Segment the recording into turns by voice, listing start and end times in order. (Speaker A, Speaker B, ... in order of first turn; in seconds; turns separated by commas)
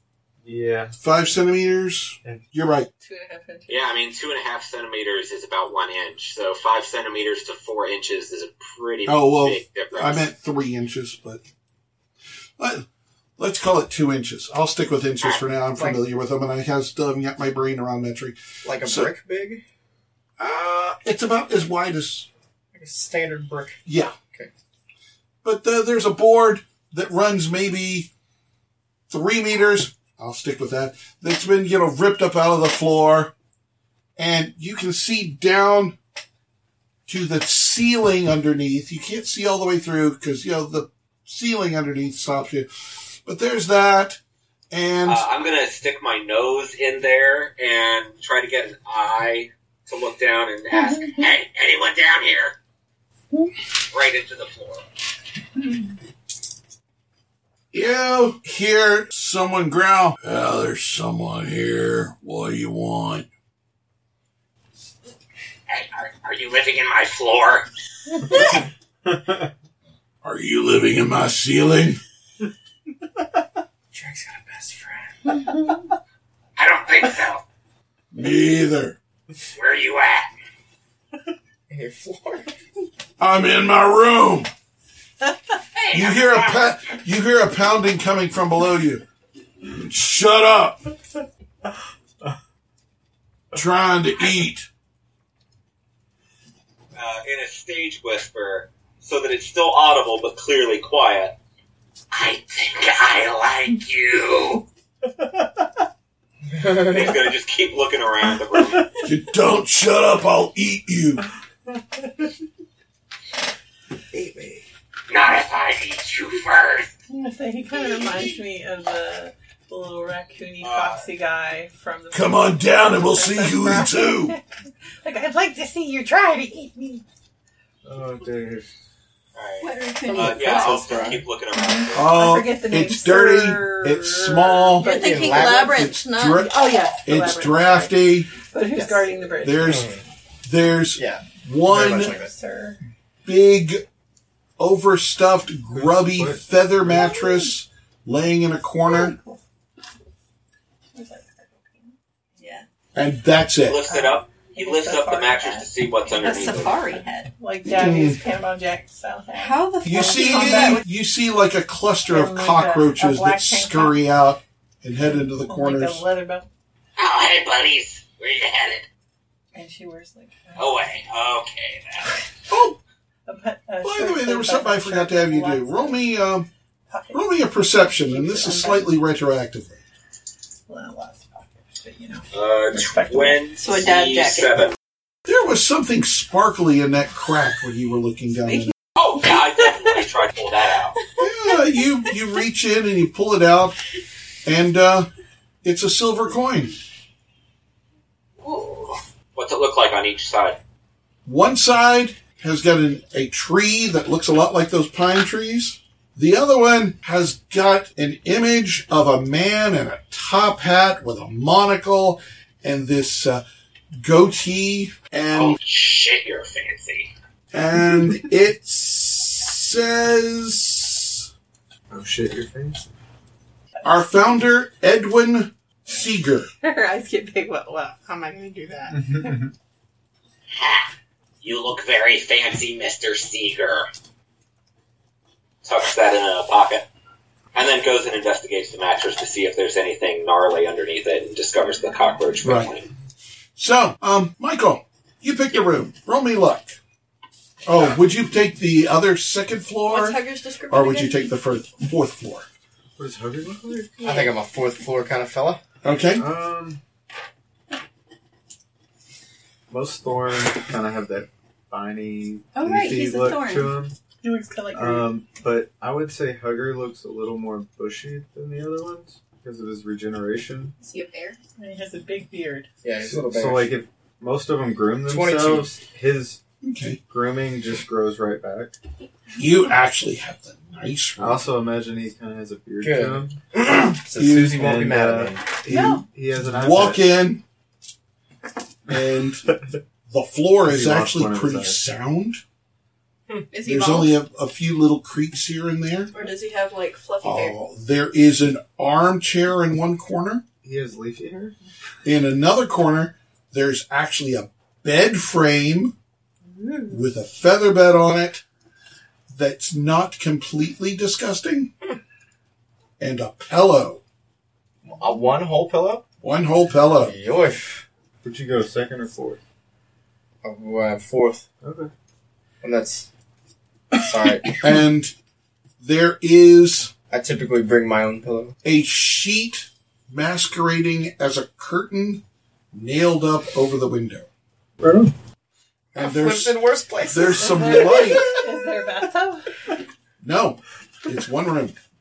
Speaker A: 0.4-0.9, Speaker B: 1.0-2.9, Speaker C: 3.0-3.9, Speaker D: 3.7-10.3, Speaker B: 9.1-11.4, Speaker B: 12.6-12.9, Speaker B: 13.4-19.1, Speaker E: 15.8-16.0, Speaker E: 18.6-19.6, Speaker B: 20.4-22.3, Speaker E: 22.7-23.8, Speaker B: 23.9-24.1, Speaker B: 25.4-28.1, Speaker B: 29.1-33.3, Speaker B: 34.2-36.0, Speaker B: 37.1-42.7, Speaker B: 43.2-44.2, Speaker B: 44.7-45.3, Speaker D: 45.0-52.6, Speaker C: 50.8-51.1, Speaker D: 53.9-54.9, Speaker B: 57.7-63.3, Speaker D: 65.7-67.7, Speaker A: 69.1-69.5, Speaker B: 70.2-72.0, Speaker E: 73.9-75.4, Speaker D: 76.6-77.4, Speaker B: 78.1-79.0, Speaker D: 79.5-80.3, Speaker E: 81.7-82.5, Speaker B: 83.2-84.5, Speaker D: 85.8-86.8, Speaker B: 85.9-89.0, Speaker B: 89.7-90.8, Speaker B: 93.5-94.7, Speaker D: 96.9-101.3, Speaker D: 102.1-104.6, Speaker E: 106.6-107.1, Speaker D: 106.7-108.8, Speaker A: 108.6-109.0, Speaker B: 109.0-111.2, Speaker A: 114.1-114.7, Speaker D: 115.1-116.9, Speaker C: 117.1-124.4, Speaker D: 120.6-121.1, Speaker B: 122.1-124.4, Speaker C: 125.0-127.0, Speaker A: 127.8-128.7, Speaker D: 129.4-132.1, Speaker F: 129.6-131.2, Speaker E: 130.1-131.2, Speaker C: 131.5-135.7, Speaker B: 131.9-135.0, Speaker F: 134.8-136.5, Speaker E: 134.9-135.8, Speaker B: 135.5-138.3, Speaker C: 136.3-139.9, Speaker E: 138.7-140.1, Speaker B: 139.4-139.9, Speaker B: 140.4-142.2, Speaker E: 141.0-142.3, Speaker C: 141.8-142.8, Speaker B: 143.2-143.8, Speaker B: 144.6-149.2, Speaker A: 145.7-146.4, Speaker C: 146.9-147.5, Speaker C: 148.8-149.4, Speaker C: 150.9-152.0, Speaker F: 152.4-152.6, Speaker B: 152.9-153.8, Speaker D: 153.7-156.8, Speaker C: 153.9-160.8, Speaker F: 156.2-157.3, Speaker B: 157.7-158.2, Speaker F: 159.3-160.8, Speaker B: 159.8-166.0, Speaker C: 162.1-164.0, Speaker C: 165.2-166.5, Speaker D: 167.0-168.9, Speaker C: 169.5-170.8, Speaker D: 170.6-172.2, Speaker B: 172.5-172.8, Speaker C: 173.3-176.0, Speaker B: 173.8-176.5, Speaker C: 176.9-178.9, Speaker B: 177.1-179.8, Speaker C: 180.7-183.4, Speaker D: 182.3-184.8, Speaker F: 183.6-184.6, Speaker B: 185.3-188.7, Speaker D: 189.0-191.0, Speaker B: 191.2-193.8, Speaker B: 194.4-195.1, Speaker B: 195.6-196.8, Speaker D: 198.5-200.6, Speaker B: 201.2-213.4, Speaker B: 214.0-215.6, Speaker D: 215.3-217.1, Speaker B: 217.5-221.3, Speaker A: 221.9-222.8, Speaker C: 223.8-224.1, Speaker B: 223.8-226.5, Speaker C: 226.6-229.4, Speaker A: 228.9-229.5, Speaker D: 230.5-230.9, Speaker D: 231.4-233.9, Speaker D: 235.6-236.9, Speaker D: 237.5-242.9, Speaker B: 242.4-242.7, Speaker B: 243.6-246.8, Speaker B: 247.7-252.5, Speaker F: 249.9-251.3, Speaker A: 253.0-254.0, Speaker F: 254.0-254.3, Speaker E: 254.0-255.6, Speaker B: 255.8-256.2, Speaker A: 256.2-256.8, Speaker A: 259.7-263.9, Speaker F: 262.5-263.8, Speaker C: 264.2-265.1, Speaker A: 264.7-270.7, Speaker F: 270.8-271.4, Speaker C: 271.6-272.7, Speaker E: 272.8-273.8, Speaker A: 273.0-276.4, Speaker E: 275.1-275.7, Speaker B: 276.6-277.0, Speaker A: 277.1-278.8, Speaker B: 279.4-281.4, Speaker A: 281.2-283.4, Speaker E: 282.8-285.4, Speaker B: 284.1-284.6, Speaker A: 284.3-287.0, Speaker B: 285.7-287.4, Speaker C: 285.7-286.0, Speaker B: 288.9-289.5, Speaker B: 290.1-292.4, Speaker A: 290.6-291.8, Speaker F: 293.5-294.1, Speaker B: 293.6-296.1, Speaker F: 296.1-297.6, Speaker B: 297.2-300.4, Speaker A: 300.6-301.6, Speaker B: 302.1-305.9, Speaker C: 306.5-306.9, Speaker B: 306.9-308.4, Speaker B: 309.3-311.7, Speaker B: 313.0-314.0, Speaker E: 314.8-316.0, Speaker B: 316.2-317.1, Speaker E: 317.0-317.9, Speaker A: 318.2-319.4, Speaker E: 320.4-321.5, Speaker A: 321.6-321.9, Speaker E: 322.6-323.1, Speaker E: 323.9-324.6, Speaker B: 324.6-325.1, Speaker B: 325.8-326.9, Speaker E: 327.1-328.6, Speaker B: 328.6-334.3, Speaker A: 334.8-335.1, Speaker B: 335.9-338.2, Speaker E: 336.0-337.7, Speaker C: 337.3-339.5, Speaker B: 340.2-341.8